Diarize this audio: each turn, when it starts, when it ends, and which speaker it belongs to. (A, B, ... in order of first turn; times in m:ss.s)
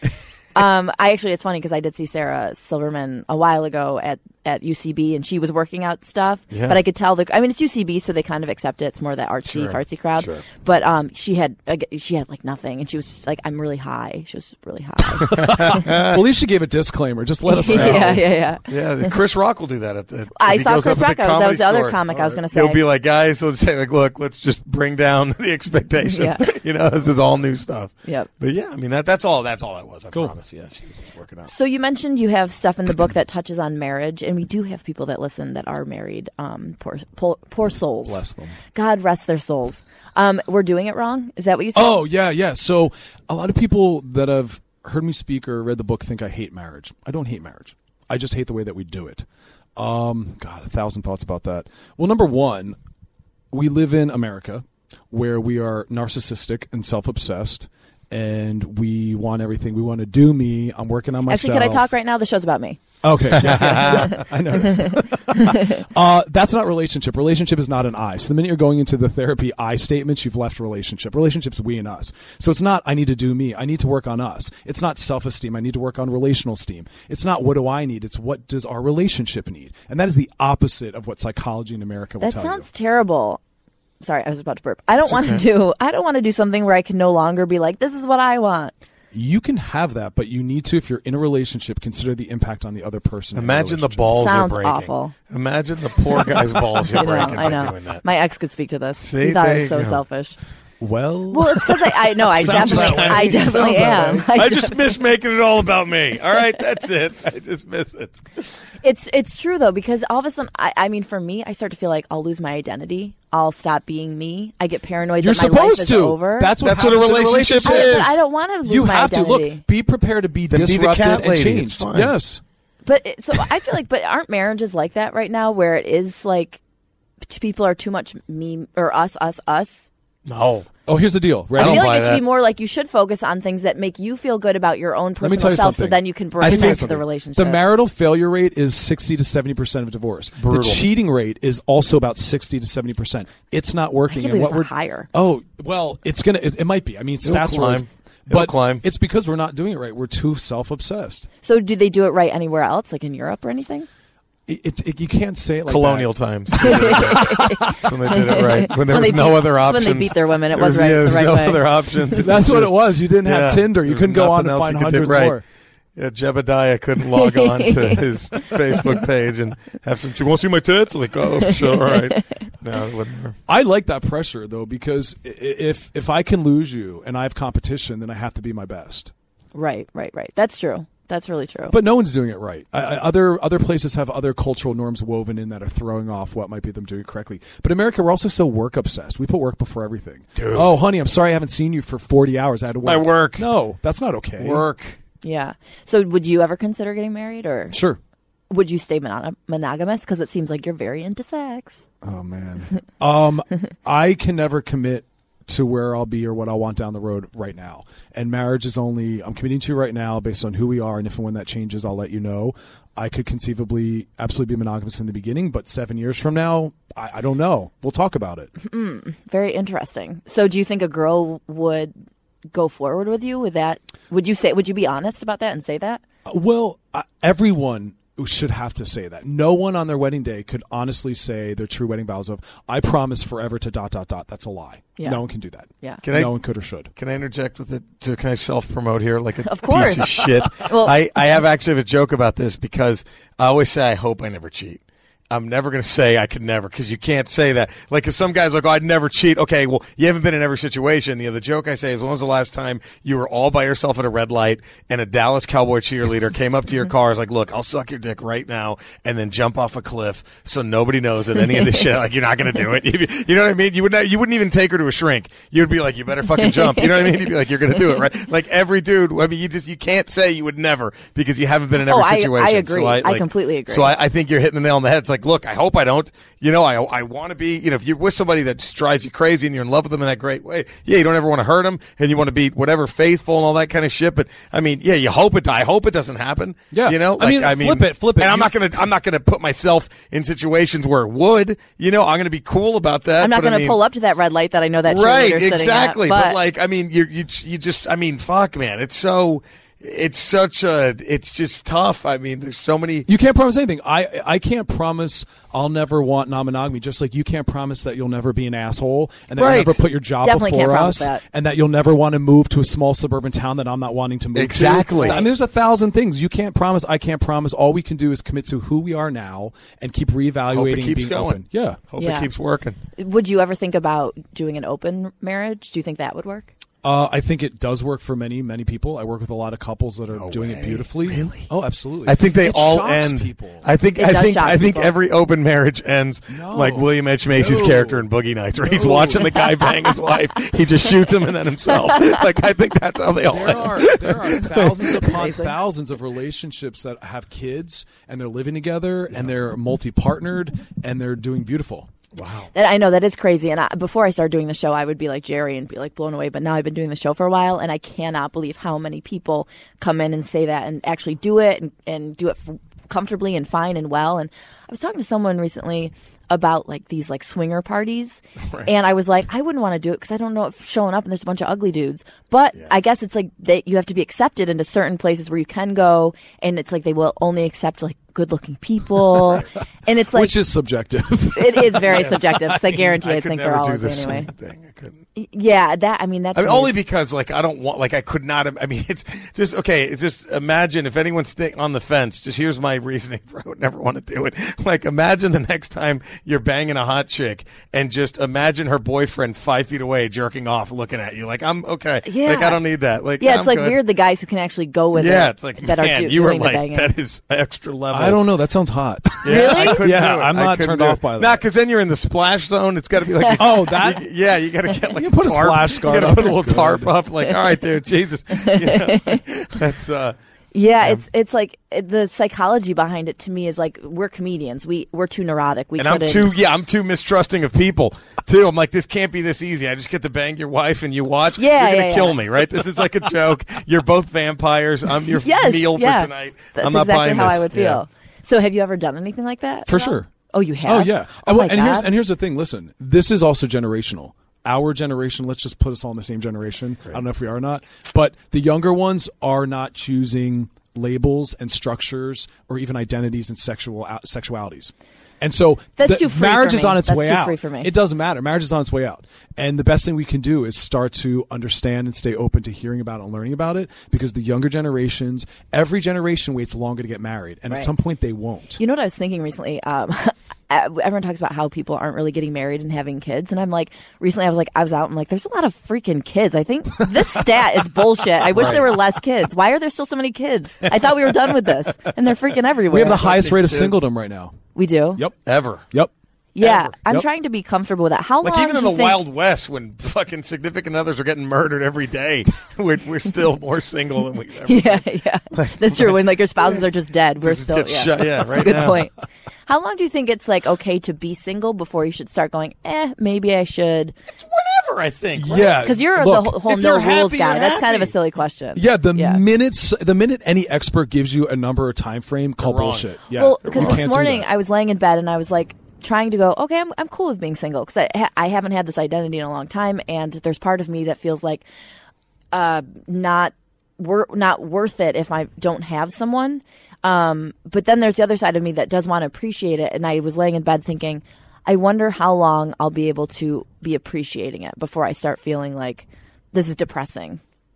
0:00.6-0:15.8 A
0:06.5-0:06.8 B
0:09.5-0:10.4 B
0:15.2-0:18.3 C
0:15.2-0:16.2 B
0:17.5-0:19.1 A
0:17.7-0:31.5 B
0:20.4-0:22.8 A
0:26.0-0:26.4 A
0:28.0-0:28.3 A
0:31.5-0:42.0 A
0:38.1-0:38.6 C
0:41.8-0:52.8 C
0:53.5-1:01.9 C
1:01.3-1:02.8 A
1:03.0-1:22.7 C
1:03.3-1:04.3 B
1:03.3-1:05.8 A
1:22.2-1:23.4 A
1:24.0-1:28.7 A
1:25.0-1:25.4 B
1:29.1-1:34.4 C
1:33.4-1:38.0 B
1:34.1-1:35.2 A
1:36.9-1:40.4 A
1:39.0-1:40.0 B
1:40.8-1:44.3 C
1:41.3-1:44.8 A
1:42.4-1:48.5 B
1:48.8-1:56.6 A
1:55.2-2:02.4 C
1:56.6-1:58.2 B
1:57.6-1:59.6 A
2:00.5-2:02.1 B
2:02.9-2:06.6 A
2:07.3-2:09.9 A
2:10.3-2:10.7 B
2:10.9-2:11.9 C
2:11.6-2:12.2 B
2:11.6-2:17.6 A
2:15.2-2:31.3 C
2:16.4-2:17.0 B
2:20.4-2:20.8 B
2:24.1-2:25.1 A
2:27.2-2:28.8 B
2:31.4-2:33.9 A
2:34.5-2:38.4 C
2:35.7-2:45.4 B
2:36.6-2:42.2 A
2:42.2-2:45.4 C
2:46.0-2:53.4 B
2:47.1-2:48.0 A
2:51.6-2:52.2 A
2:53.5-2:59.1 C
2:59.5-3:01.8 A
3:01.7-3:14.6 C
3:10.4-3:10.7 B
3:12.8-3:13.5 B
3:14.4-3:15.0 B
3:15.2-3:17.8 A
3:17.7-3:18.0 C
3:18.5-3:21.8 A
3:22.0-3:38.5 C
3:38.6-3:41.9 A
3:42.5-3:46.0 A
3:46.2-3:56.9 C
3:56.0-3:56.3 B
3:57.0-4:53.8 B
3:59.4-4:01.0 A
4:26.4-4:27.3 A
4:31.8-4:34.0 A
4:46.7-4:48.5 C
4:53.2-4:56.4 A
4:54.8-5:03.1 B
5:03.1-5:21.8 C
5:09.4-5:09.8 B
5:10.2-5:11.2 A
5:14.4-5:15.2 B
5:14.9-5:15.3 A
5:20.5-5:21.4 B
5:21.9-5:22.8 B
5:22.0-5:22.3 A
5:23.0-5:26.5 A
5:26.8-5:33.7 C
5:30.1-5:31.5 B
5:32.0-5:45.1 B
5:34.0-5:35.0 A
5:36.3-5:39.5 C
5:43.3-5:51.9 C
5:45.1-5:45.5 A
5:52.2-5:52.5 B
5:52.5-6:20.4 A
6:19.1-6:22.9 C
6:21.4-6:24.3 A
6:21.9-6:22.2 B
6:22.9-6:25.0 B
6:25.2-6:26.8 A
6:26.4-6:43.8 B
6:42.0-6:42.6 A
6:43.2-6:46.9 A
6:44.9-6:48.2 B
6:47.9-6:51.4 C
6:49.2-7:00.2 B
6:49.3-6:49.9 A
6:53.2-6:53.5 A
6:53.4-6:54.0 C
6:54.9-6:56.9 C
6:58.3-6:59.2 A
7:00.5-7:06.3 A
7:05.8-7:17.8 B
7:11.4-7:12.2 A
7:15.2-7:21.9 A
7:19.7-7:20.1 C
7:20.6-7:48.6 C
7:35.8-7:37.7 A
7:48.6-8:03.1 A
7:56.8-7:57.4 C
7:58.2-7:58.8 C
7:58.3-7:58.6 B
8:02.7-8:04.4 C
8:02.8-8:03.8 B
8:04.6-8:05.0 A
8:05.2-8:05.7 B
8:06.4-8:09.0 A
8:06.4-8:06.7 B
8:08.2-8:14.8 B
8:14.5-8:18.9 A
8:15.4-8:16.0 B
8:17.2-8:18.9 B
8:19.5-8:23.9 A
8:24.2-8:25.6 B
8:25.2-8:26.6 C
8:25.5-8:29.2 A
8:26.5-8:27.9 B
8:28.6-8:34.3 C
8:32.4-8:32.9 B
8:33.1-8:41.4 A
8:33.4-8:33.8 B
8:42.3-8:57.2 A